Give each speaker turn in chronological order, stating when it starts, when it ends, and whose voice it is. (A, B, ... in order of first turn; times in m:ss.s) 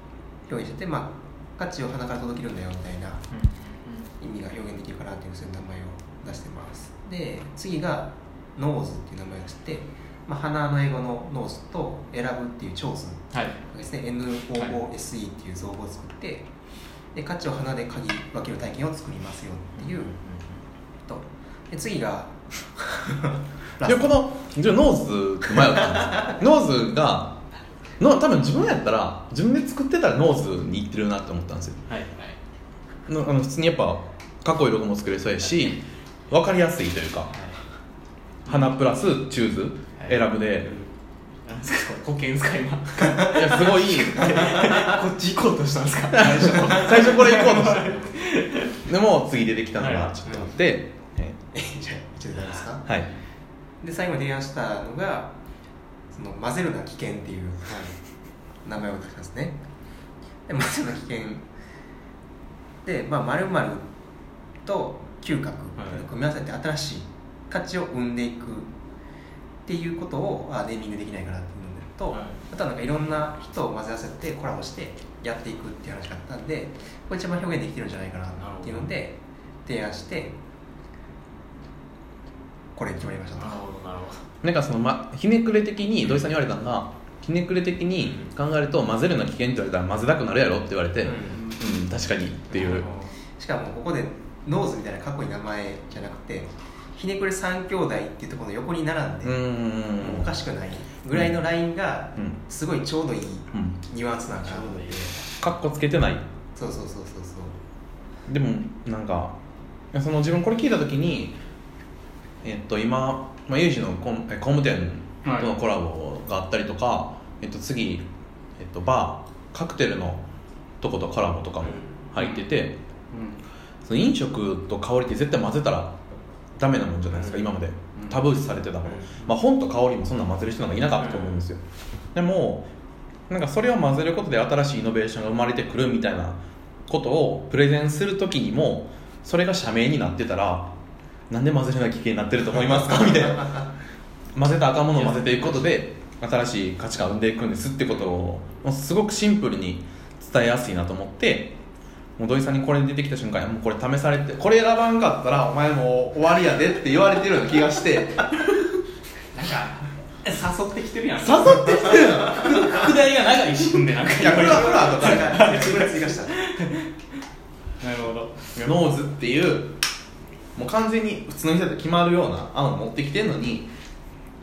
0:00.5-0:03.3 A
0:03.3-0:04.1 B
0:04.2-0:16.5 A
0:13.3-0:13.6 B
0:17.1-0:20.1 A
0:19.8-0:20.6 B
0:21.1-0:24.2 A
0:23.8-0:27.4 C
0:28.0-0:31.8 C
0:31.8-0:32.4 B
0:33.1-0:37.3 C
0:37.3-0:37.6 B
0:38.4-0:38.7 B
0:38.4-0:40.7 C
0:40.0-0:40.2 B
0:40.6-0:40.9 A
0:41.4-0:48.8 B
0:43.0-0:44.5 C
0:46.1-0:48.0 C
0:48.8-0:51.4 C
0:49.8-0:50.1 B
0:50.2-0:50.5 A
0:51.5-0:52.9 A
0:53.8-0:55.3 A
0:56.1-0:57.9 A
0:57.6-0:57.9 B
0:58.6-0:59.6 A
1:00.5-1:01.4 A
1:02.8-1:03.8 A
1:04.6-1:08.7 A
1:05.8-1:06.0 B
1:09.6-1:20.4 A
1:12.1-1:12.4 B
1:18.4-1:18.9 B
1:22.8-1:23.6 A
1:23.4-1:24.2 B
1:24.4-1:32.9 C
1:31.0-1:31.4 A
1:31.3-1:31.6 B
1:32.5-1:33.1 B
1:33.4-1:39.4 A
1:39.2-1:40.3 C
1:40.0-1:45.1 A
1:41.1-1:41.4 C
1:44.4-1:45.4 B
1:45.4-1:46.2 C
1:46.6-1:47.6 A
1:48.3-1:49.4 C
1:49.9-1:51.4 C
1:52.4-1:58.0 C
1:55.2-1:55.5 B
1:58.6-2:00.2 C
2:00.8-2:02.8 C
2:02.2-2:02.4 B
2:03.1-2:03.4 B
2:03.8-2:06.0 C
2:06.6-2:11.6 C
2:07.2-2:07.5 A
2:07.9-2:08.3 B
2:10.9-2:11.4 B
2:12.1-2:12.7 C
2:13.3-2:20.7 C
2:21.3-2:23.6 C
2:24.3-2:31.6 C
2:24.9-2:25.7 B
2:32.2-2:38.5 C
2:39.3-2:46.9 B
2:41.2-2:42.7 C
2:44.2-2:45.6 C
2:45.0-2:46.3 A
2:47.8-2:48.7 B
2:48.6-2:49.8 C
2:50.6-2:53.7 C